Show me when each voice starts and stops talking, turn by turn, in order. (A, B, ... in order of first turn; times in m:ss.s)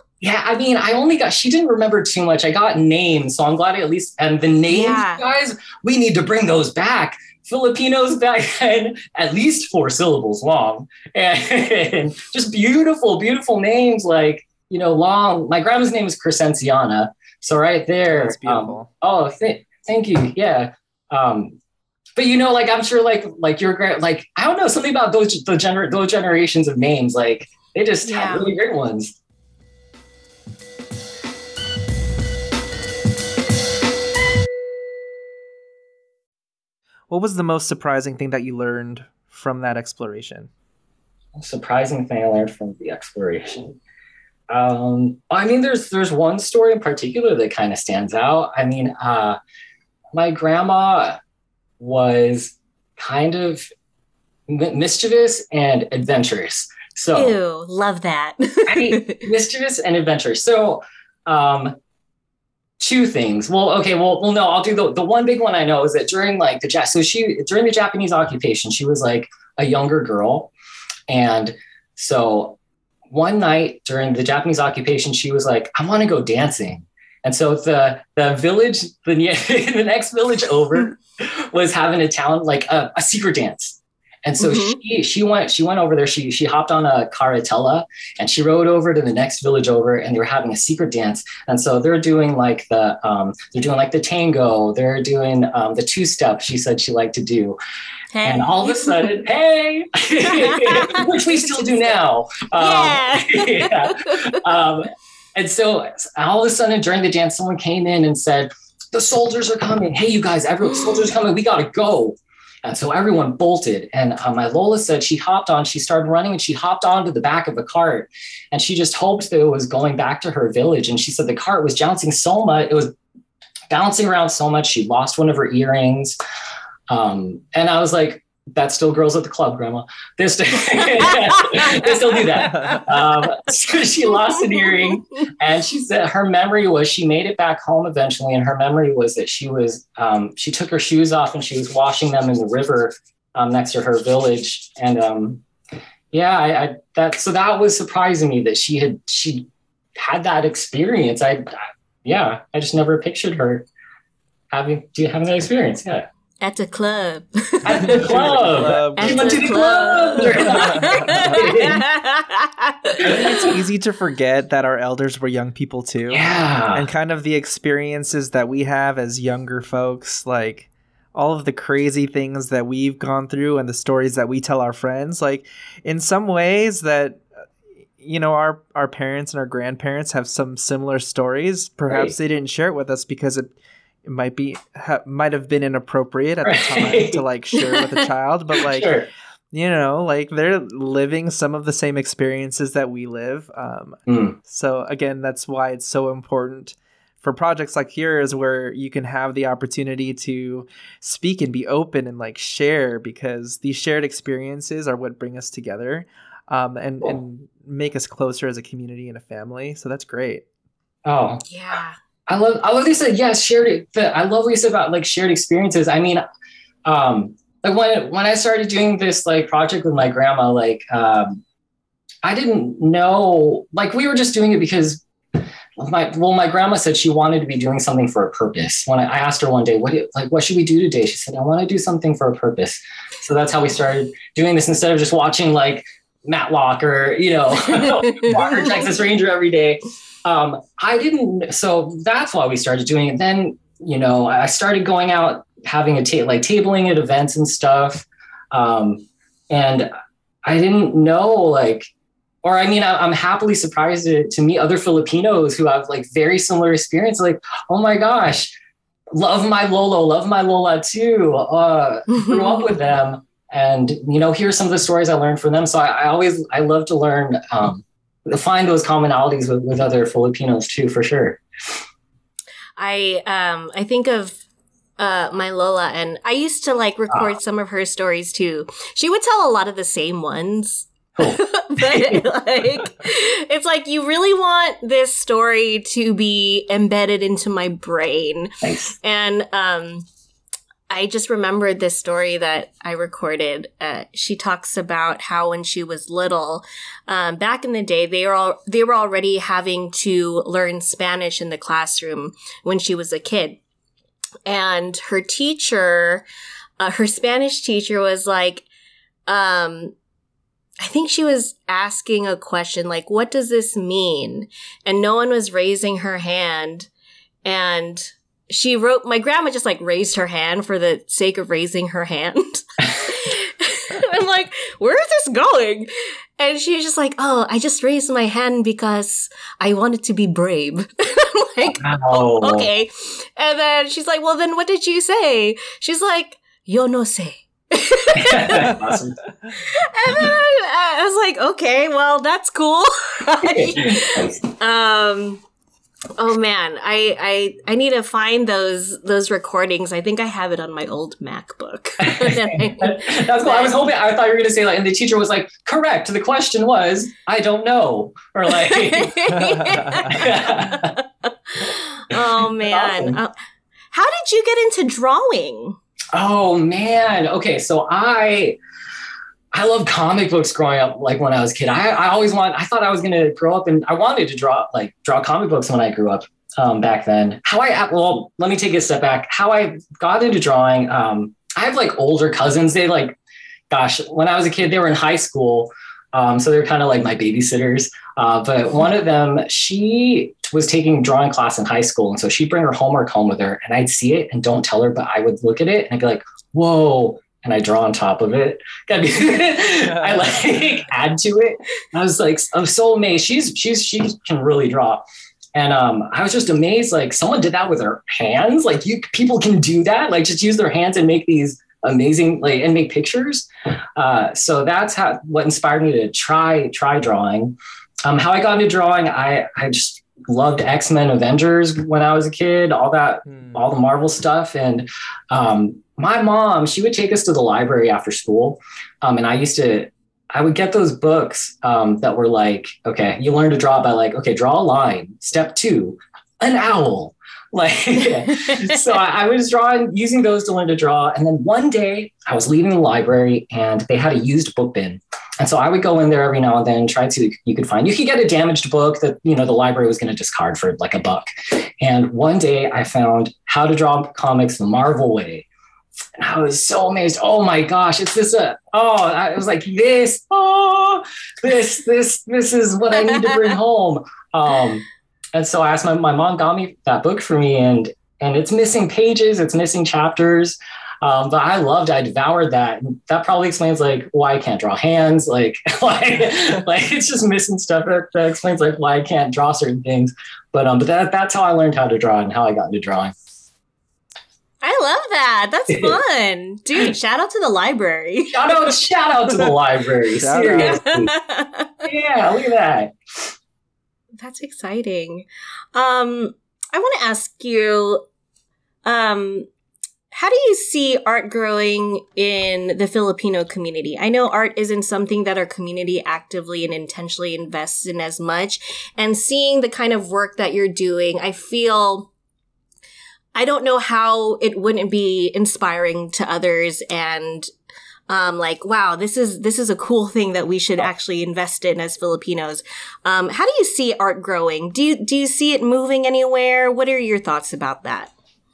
0:00.2-0:21.6 A
0:04.7-0:05.2 B
0:18.1-0:18.9 C
0:22.2-0:29.2 A
0:28.0-0:28.5 B
0:37.1-0:40.5 C
0:41.4-0:43.8 A
0:44.5-0:49.4 A
0:50.1-0:51.2 A
0:51.8-0:53.7 A
0:54.5-0:57.4 A
0:57.2-0:59.2 B
0:58.7-1:01.8 A
1:02.8-1:10.5 A
1:11.1-1:12.6 A
1:13.1-1:37.6 A
1:24.4-1:24.8 B
1:38.1-1:39.1 B
1:38.2-2:02.9 A
1:40.2-1:41.8 B
1:42.6-1:44.4 B
1:50.6-1:51.1 B
2:03.7-2:06.2 A
2:06.9-2:25.4 A
2:12.4-2:12.9 C
2:14.3-2:14.7 B
2:26.1-2:33.7 A
2:34.5-2:36.1 A
2:36.4-2:38.0 B
2:37.6-2:41.8 A
2:37.7-2:39.6 C
2:39.0-2:43.5 B
2:40.2-2:41.4 C
2:43.0-2:43.5 A
2:43.2-2:46.2 C
2:46.1-2:46.9 A
2:46.7-2:57.2 C
2:58.0-3:03.5 C
3:01.9-3:02.1 A
3:04.0-3:09.0 C
3:06.4-3:07.2 A
3:07.6-3:07.9 B
3:08.6-3:09.1 A
3:09.5-3:30.4 C
3:14.1-3:14.4 A
3:31.0-3:31.4 A
3:31.5-3:32.0 B
3:32.3-3:36.2 A
3:36.8-3:41.4 A
3:42.2-3:45.0 A
3:45.8-4:09.9 A
3:57.8-3:58.8 B
4:10.4-4:11.9 A
4:12.4-4:18.5 A
4:19.1-4:31.4 A
4:22.1-4:22.7 B
4:32.8-4:34.4 B
4:35.0-4:50.1 B
4:41.2-4:42.2 A
4:48.6-4:48.9 A
4:50.9-5:03.6 B
5:04.5-5:06.2 B
5:06.8-5:08.7 B
5:09.3-5:10.0 B
5:10.8-5:16.9 B
5:17.4-5:38.8 B
5:31.8-5:32.7 A
5:38.2-5:39.2 A
5:39.6-5:45.4 B
5:43.4-5:44.4 A
5:46.2-5:53.8 B
5:52.1-5:59.4 A
5:58.5-6:03.3 B
5:59.5-6:00.0 C
6:00.0-6:01.0 A
6:02.1-6:03.2 A
6:03.9-6:05.8 B
6:06.1-6:08.6 A
6:09.5-6:23.2 A
6:23.7-6:45.0 A
6:39.8-6:40.7 C
6:45.6-7:31.2 A
7:03.3-7:03.6 C
7:31.8-7:35.5 A
7:36.2-8:03.1 A
8:04.6-8:08.7 B
8:05.7-8:06.0 A
8:08.3-8:11.2 A
8:10.2-8:10.8 C
8:10.6-8:11.7 B
8:11.8-8:13.3 A
8:14.2-8:18.0 B
8:18.8-8:19.5 B
8:20.1-8:32.1 B
8:33.4-8:37.5 B
8:38.1-8:48.1 B